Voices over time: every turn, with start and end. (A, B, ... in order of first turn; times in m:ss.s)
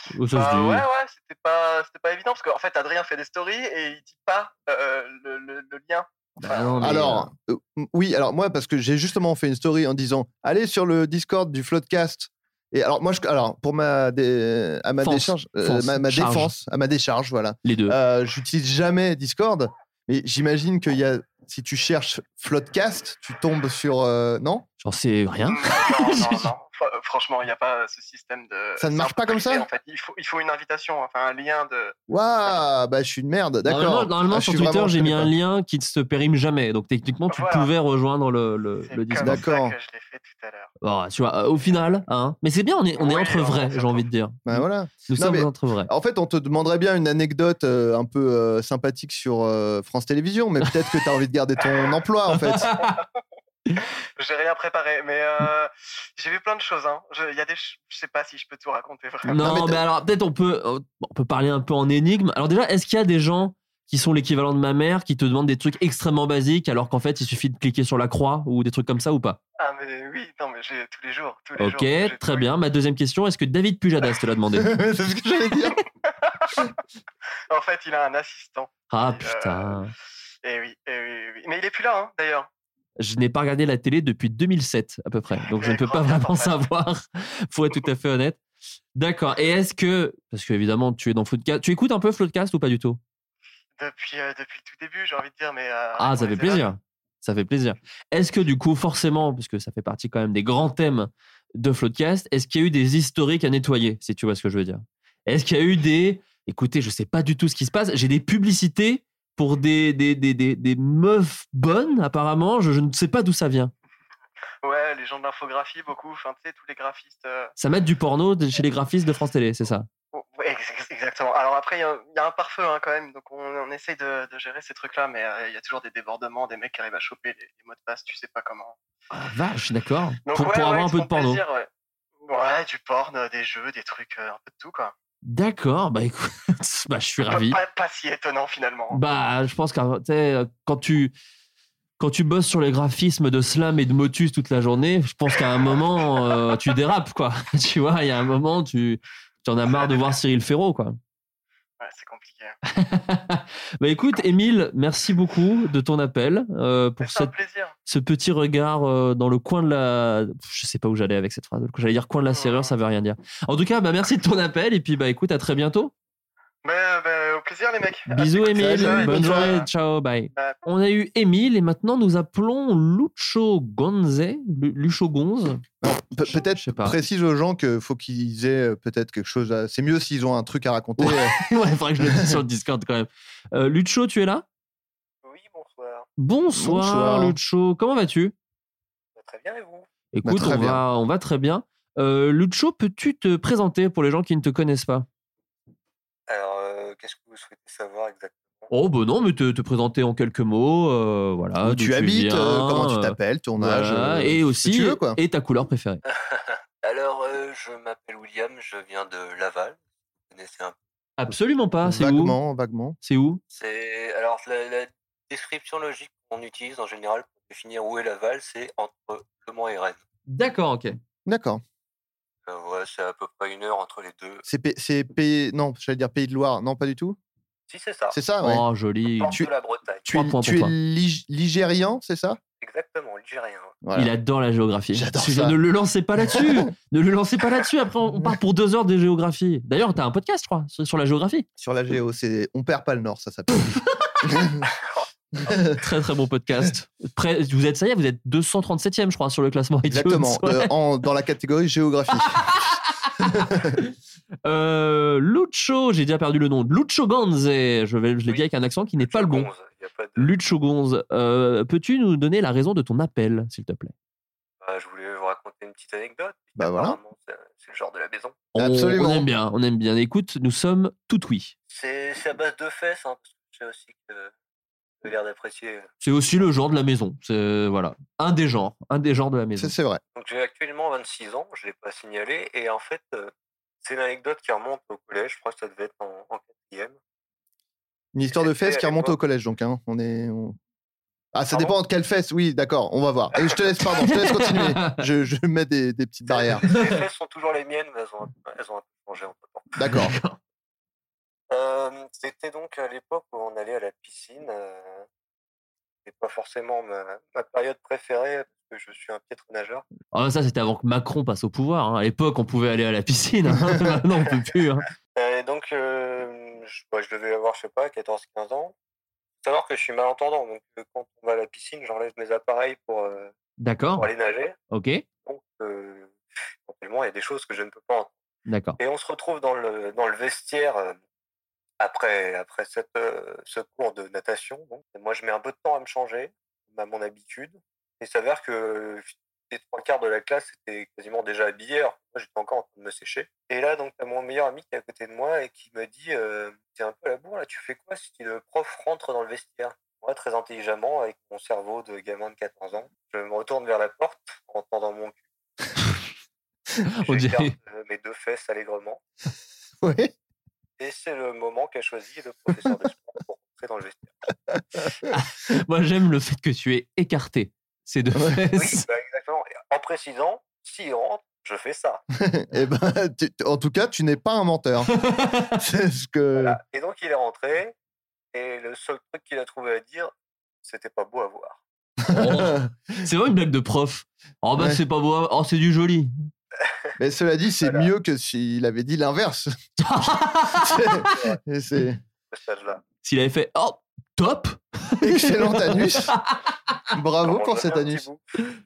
0:00.1-0:00.8 A
0:00.3-0:07.0 B
0:06.4-0:07.3 A
0:06.8-0:24.6 C
0:15.0-0:16.5 A
0:17.6-0:18.0 A
0:24.8-0:26.5 A
0:25.4-0:32.0 B
0:28.8-0:29.7 C
0:32.1-0:35.3 C
0:33.6-0:39.5 A
0:37.3-0:37.7 B
0:38.8-0:40.7 B
0:39.2-0:39.7 C
0:40.8-0:45.9 A
0:42.9-0:44.1 B
0:44.4-0:52.7 C
0:52.5-0:53.0 A
0:54.2-0:59.5 B
0:59.2-1:09.4 A
0:59.3-0:59.8 C
1:09.6-1:12.5 B
1:11.6-1:14.7 A
1:14.6-1:15.8 C
1:16.3-1:16.7 B
1:17.5-1:19.9 B
1:18.9-1:19.9 A
1:20.4-1:22.5 B
1:23.0-1:28.4 A
1:25.4-1:26.6 B
1:29.0-1:33.0 A
1:33.8-1:36.7 B
1:36.0-1:53.7 A
1:54.6-1:57.5 B
1:57.6-1:59.9 A
2:00.1-2:08.8 B
2:09.1-2:11.4 A
2:10.2-2:11.7 B
2:12.2-2:14.9 B
2:15.2-2:17.6 A
2:17.2-2:19.0 B
2:18.9-2:21.1 A
2:22.0-2:31.0 A
2:25.3-2:25.6 B
2:29.7-2:30.1 B
2:31.8-2:32.6 B
2:32.7-2:37.3 A
2:37.0-2:37.8 B
2:37.9-2:45.9 A
2:42.3-2:42.7 B
2:46.6-2:49.7 B
2:48.1-2:55.6 A
2:48.5-2:49.6 C
2:50.3-2:50.6 B
2:55.8-3:01.4 C
2:56.6-2:57.0 A
3:01.0-3:04.4 A
3:02.0-3:02.3 C
3:05.2-3:06.1 D
3:06.2-3:08.3 A
3:06.5-3:07.4 C
3:09.2-3:09.9 D
3:10.1-3:15.0 A
3:10.2-3:10.8 C
3:16.3-3:18.7 D
3:18.7-3:26.0 A
3:21.6-3:25.2 C
3:26.0-3:30.8 D
3:31.2-3:32.4 A
3:31.8-3:33.0 C
3:33.0-3:33.4 A
3:33.5-3:40.0 D
3:40.3-3:41.0 A
3:41.2-3:41.6 C
3:42.5-3:44.4 D
3:44.4-3:47.2 C
3:47.7-3:48.2 D
3:48.1-3:48.6 C
3:48.4-3:49.4 A
3:49.1-3:50.1 D
3:50.0-3:52.4 C
3:50.1-3:50.7 A
3:52.6-3:53.8 D
3:53.8-3:54.1 C
3:53.9-4:01.4 A
3:54.9-3:55.6 C
3:56.3-3:56.6 C
4:01.6-4:04.6 C
4:05.4-4:05.8 C
4:05.7-4:10.7 A
4:09.9-4:12.7 C
4:12.2-4:13.9 A
4:13.4-4:13.7 C
4:14.4-4:19.5 A
4:18.3-4:20.4 D
4:20.2-4:23.9 A
4:24.6-4:28.5 D
4:26.6-4:27.0 C
4:28.5-4:31.5 A
4:28.6-4:29.3 C
4:31.7-4:34.3 D
4:35.0-4:35.9 D
4:36.0-4:39.7 A
4:39.6-4:40.0 C
4:40.1-4:43.3 D
4:43.8-4:47.0 D
4:48.1-4:50.6 C
4:48.3-4:49.2 D
4:51.3-4:56.6 C
4:51.5-4:51.8 D
4:54.0-4:55.0 A
4:56.3-4:59.7 D
4:56.7-4:57.0 A
4:59.8-5:00.2 C
4:59.9-5:00.4 A
5:01.5-5:05.0 D
5:06.0-5:09.8 D
5:10.1-5:14.9 A
5:15.2-5:18.7 D
5:19.4-5:23.3 D
5:23.6-5:24.1 A
5:24.0-5:24.6 D
5:24.7-5:25.0 A
5:25.2-5:26.1 D
5:26.6-5:28.2 D
5:28.5-5:28.8 A
5:28.8-5:31.0 D
5:31.8-5:55.2 D
5:57.0-5:57.6 A
5:57.0-5:59.0 D
5:59.8-6:00.1 C
6:00.8-6:04.1 D
6:05.1-6:08.8 A
6:08.6-6:12.0 D
6:12.2-6:14.9 C
6:14.9-6:15.6 A
6:15.6-6:16.6 C
6:16.3-6:17.8 D
6:18.3-6:21.6 D
6:22.1-6:26.1 A
6:22.1-6:22.7 C
6:27.0-6:29.5 C
6:29.8-6:31.2 A
6:30.6-6:32.0 C
6:32.3-6:32.8 D
6:33.0-6:36.3 A
6:35.0-6:36.1 C
6:36.9-6:38.1 C
6:37.2-6:38.2 D